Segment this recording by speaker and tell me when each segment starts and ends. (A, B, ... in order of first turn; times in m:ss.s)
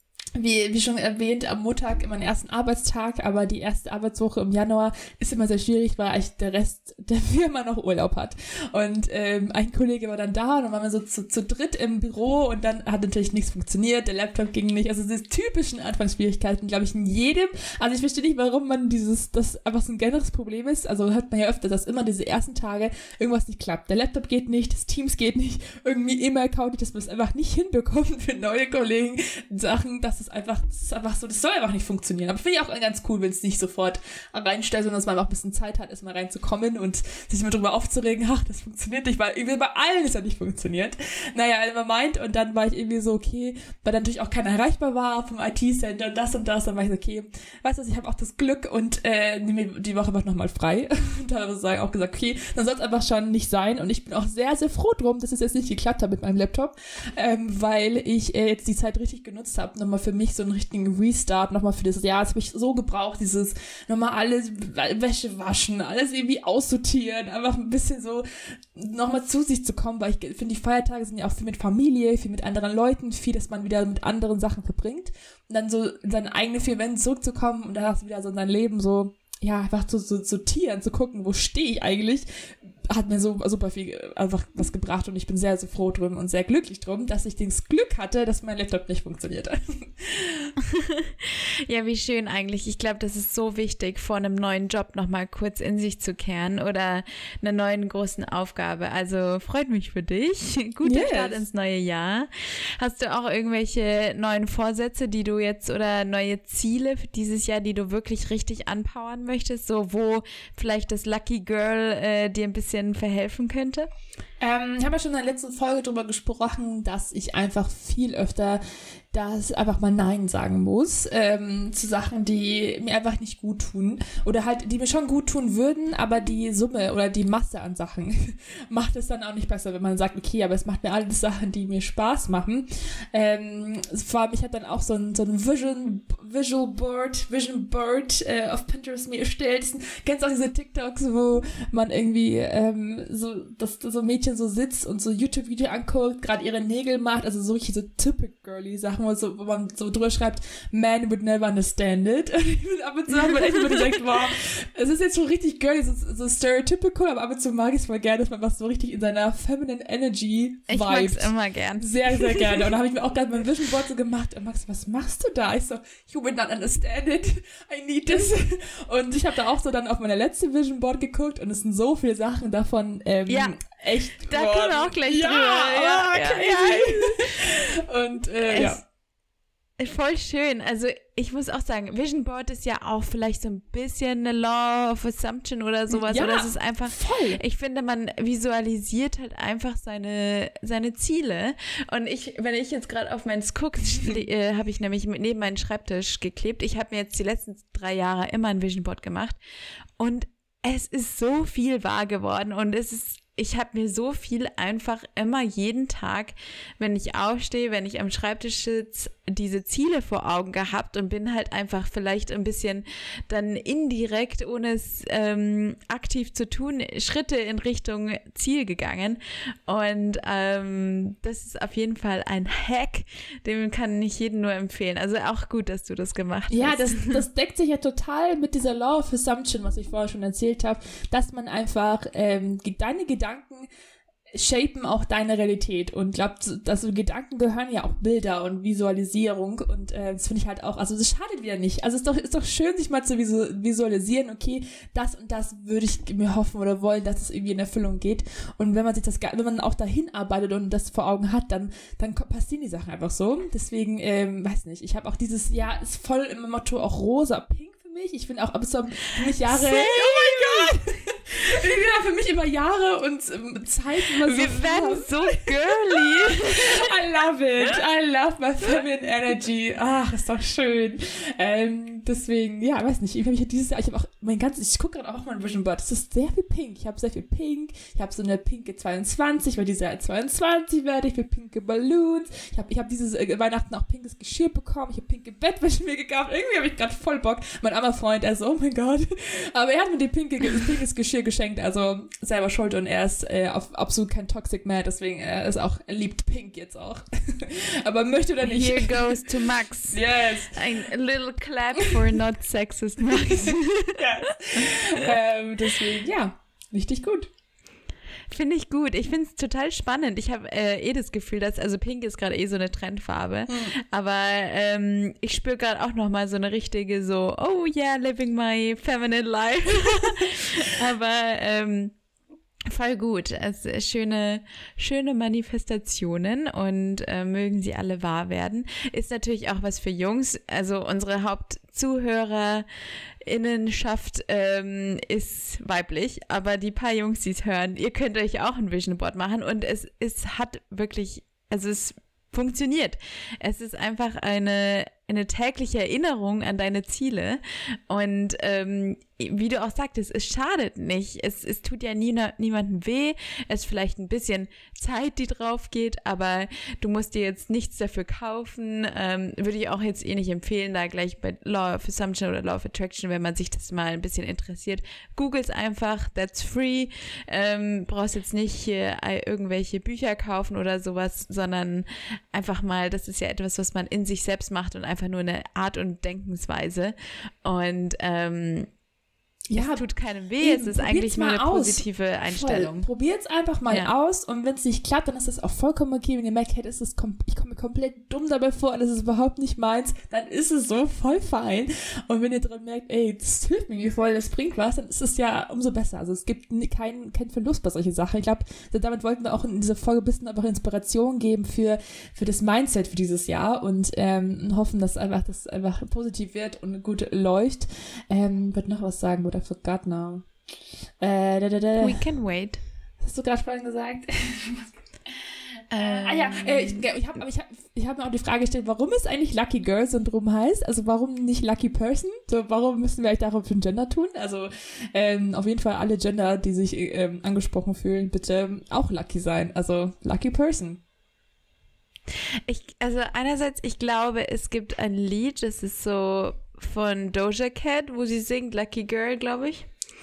0:00.4-1:30.5 A
1:30.6-1:53.9 B
1:40.8-1:41.4 A
1:54.4-1:58.6 A
1:59.1-2:58.8 A
2:33.1-2:34.0 B
2:40.7-2:42.6 B
2:53.3-2:53.6 B
2:54.2-2:57.5 B
2:58.4-2:58.8 B
2:59.8-3:19.4 B
3:05.9-3:07.4 A
3:20.0-3:47.2 B
3:46.5-3:53.7 A
3:54.3-4:59.3 A
4:19.4-4:20.7 B
4:24.2-4:26.9 B
4:58.4-5:05.1 B
4:59.9-5:00.9 A
5:03.1-5:07.3 A
5:08.3-5:21.9 B
5:20.3-5:20.6 A
5:22.7-5:32.6 B
5:33.2-6:18.7 B
6:19.5-6:19.9 A
6:19.6-6:22.9 B
6:20.4-6:50.3 A
6:51.0-6:52.0 A
6:51.8-6:52.6 B
6:53.0-6:54.7 A
6:55.7-6:56.9 B
6:55.7-7:10.8 A
7:12.5-7:19.7 B